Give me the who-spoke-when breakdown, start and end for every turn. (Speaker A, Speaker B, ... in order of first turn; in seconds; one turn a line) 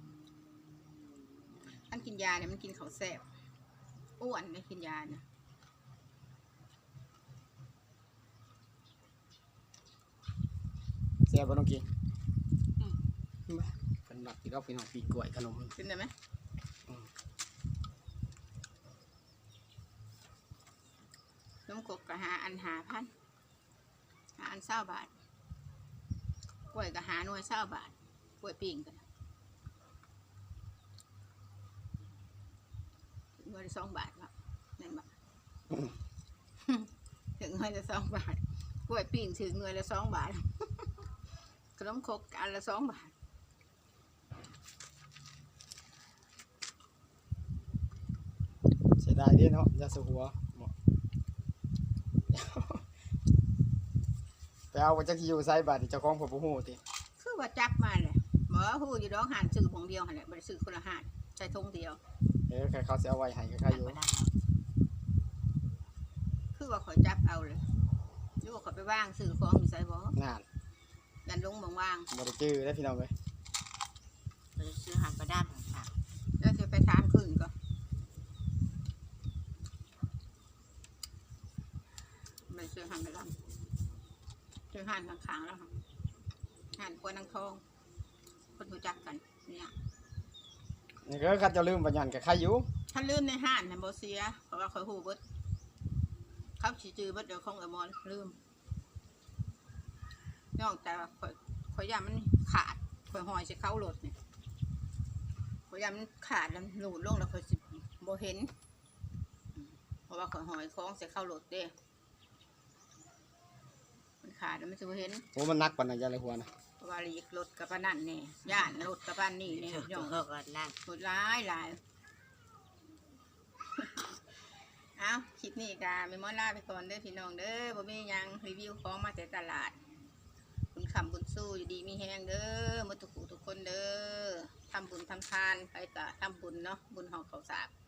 Speaker A: 1.9-3.2
Speaker A: 4.2-5.2
Speaker B: 11.3-11.8
Speaker B: 13.5-15.7
Speaker A: 15.8-16.1
Speaker A: 21.7-23.1
Speaker A: 24.4-25.1
Speaker A: 26.7-29.0
Speaker A: 33.4-35.1
Speaker A: 36.6-41.0
Speaker A: 41.8-43.1
Speaker B: 49.0-50.7
Speaker B: 52.3-52.8
Speaker B: 54.7-56.8
Speaker A: 57.2-62.0
Speaker B: 62.5-64.0
Speaker C: 63.7-64.3
Speaker A: 66.5-67.7
Speaker A: 68.4-70.2
Speaker B: 70.2-70.4
Speaker A: 71.2-72.1
Speaker B: 72.1-73.1
Speaker C: 74.5-75.9
Speaker A: 76.4-77.5
Speaker A: 82.5-83.3
Speaker A: 84.7-85.7
Speaker A: 86.8-87.6
Speaker A: 88.5-89.7
Speaker B: 91.0-92.7
Speaker A: 92.9-95.2
Speaker A: 96.6-98.4
Speaker A: 100.5-104.1
Speaker A: 105.7-108.5
Speaker A: 110.1-111.7
Speaker A: 114.2-115.3
Speaker B: 115.3-116.5
Speaker A: 116.8-120.2
Speaker C: 119.6-120.7
Speaker A: 120.8-121.8
Speaker A: 123.7-124.1
Speaker A: 125.0-129.8
Speaker A: 130.7-137.7